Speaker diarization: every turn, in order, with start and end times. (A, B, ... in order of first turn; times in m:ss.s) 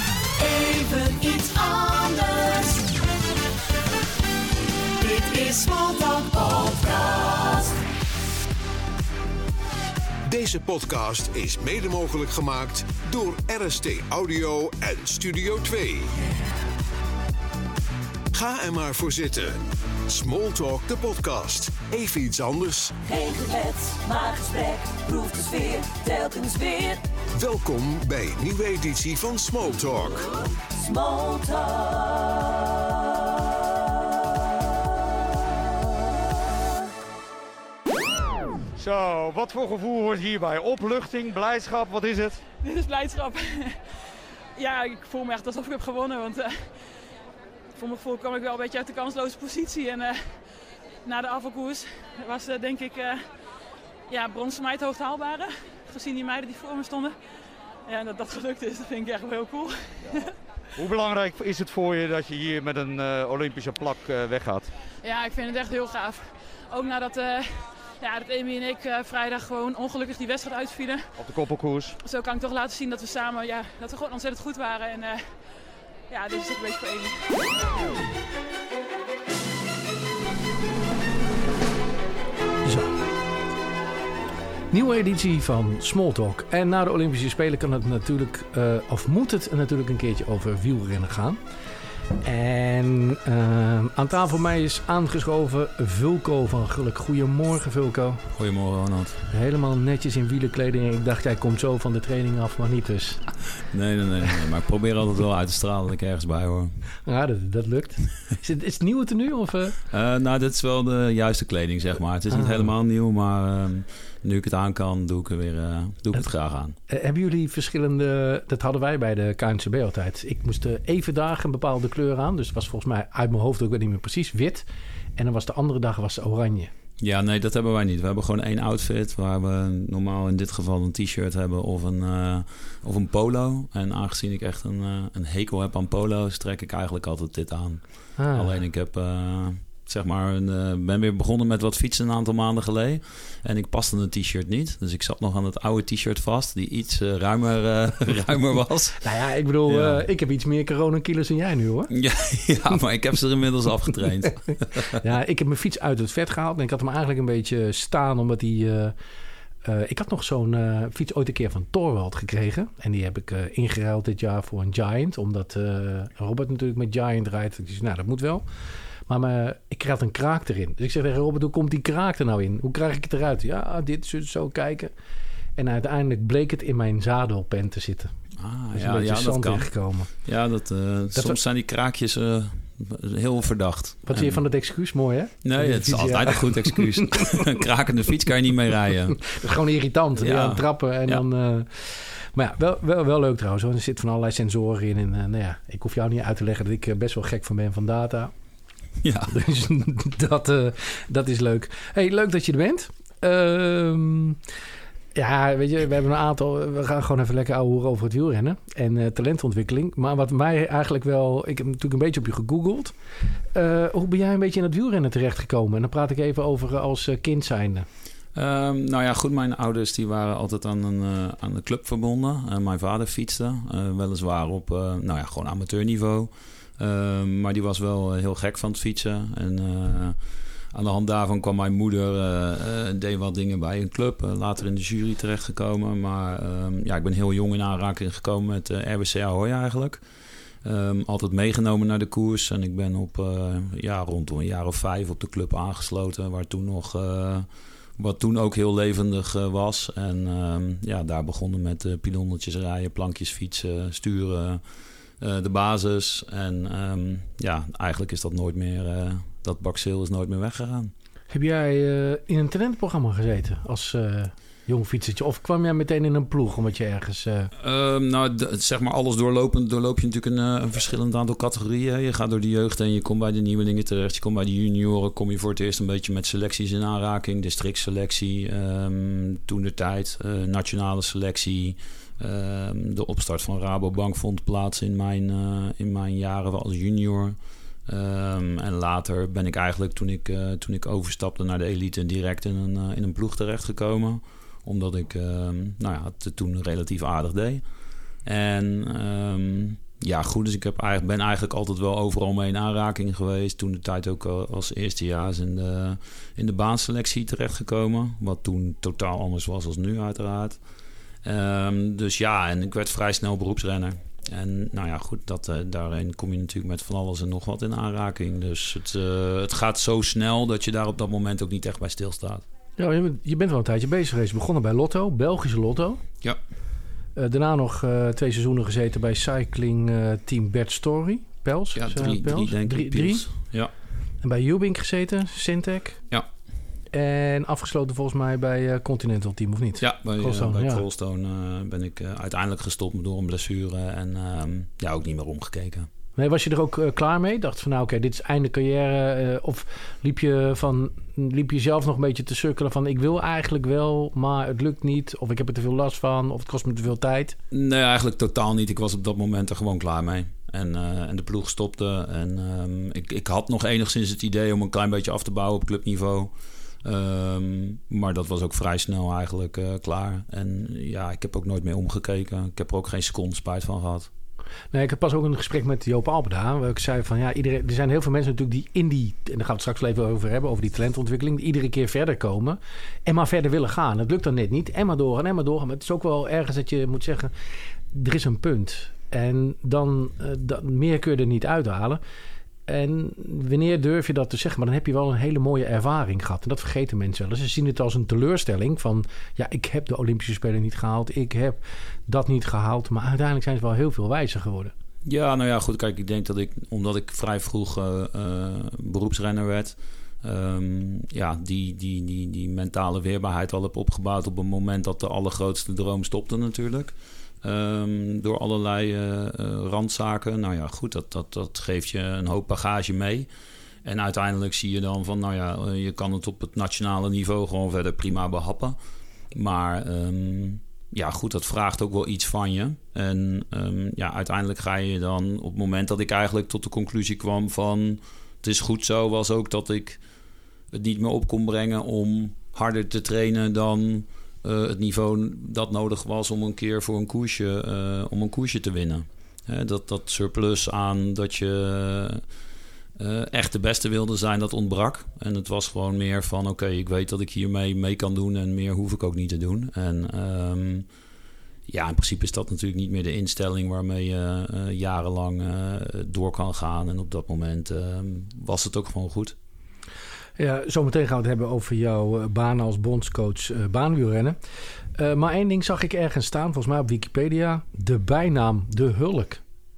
0:00.4-0:02.9 A
0:05.0-0:07.8 A
0:10.2-0:16.1 B
0:18.3-0:23.0 B
0:23.0-0:27.1 A
0:27.3-0:30.3 B
0:30.7-0:32.7 A
0:38.8-0:42.4 C
0:42.6-0:43.8 D
0:44.6-0:46.9 D
0:47.7-0:50.4 D
0:51.0-0:53.3 D
0:54.1-0:57.2 D
0:57.8-1:00.3 D
1:00.8-1:04.7 C
1:05.0-1:11.1 D
1:11.2-1:11.9 C
1:12.0-1:15.4 D
1:16.1-1:17.3 D
1:22.6-1:22.9 E
1:24.7-1:31.4 E
1:32.2-1:38.2 E
1:38.4-1:39.2 F
1:39.3-1:43.2 E
1:43.7-1:46.7 F
1:47.0-1:49.8 E
1:49.9-1:56.8 F
1:52.3-1:52.7 E
1:56.9-2:04.6 E
2:05.2-2:06.7 E
2:07.0-2:29.0 F
2:18.2-2:18.6 E
2:29.0-2:31.9 E
2:29.6-2:30.0 F
2:31.9-2:35.0 F
2:35.0-2:38.9 E
2:39.6-2:48.4 E
2:49.1-2:54.9 E
2:55.6-2:58.1 E
2:58.4-3:04.4 F
2:58.7-3:00.1 E
3:04.1-3:07.4 E
3:05.4-3:09.3 F
3:09.3-3:18.3 E
3:10.2-3:11.2 F
3:19.0-3:19.4 F
3:19.3-3:24.4 E
3:25.1-3:32.9 E
3:33.5-3:37.9 E
3:38.3-3:50.2 F
3:50.7-4:00.0 F
4:00.6-4:14.6 F
4:15.2-4:20.9 F
4:21.3-4:27.5 E
4:27.6-4:57.6 F
4:58.2-5:10.6 F
5:11.2-5:22.4 F
5:22.8-5:26.0 E
5:27.2-5:33.3 E
5:31.7-5:33.7 F
5:34.2-5:36.0 E
5:36.9-5:40.8 E
5:39.8-5:45.9 F
5:46.2-5:57.4 E
5:57.5-6:14.1 F
6:14.7-6:27.3 E
6:27.9-6:32.0 E
6:32.7-6:44.7 E
6:45.0-7:03.3 F
7:03.8-7:08.8 F
7:09.3-7:20.0 F
7:20.7-7:32.2 F
7:33.0-7:40.9 F
7:41.7-7:49.4 F
7:50.4-7:54.4 E
7:55.0-7:59.4 E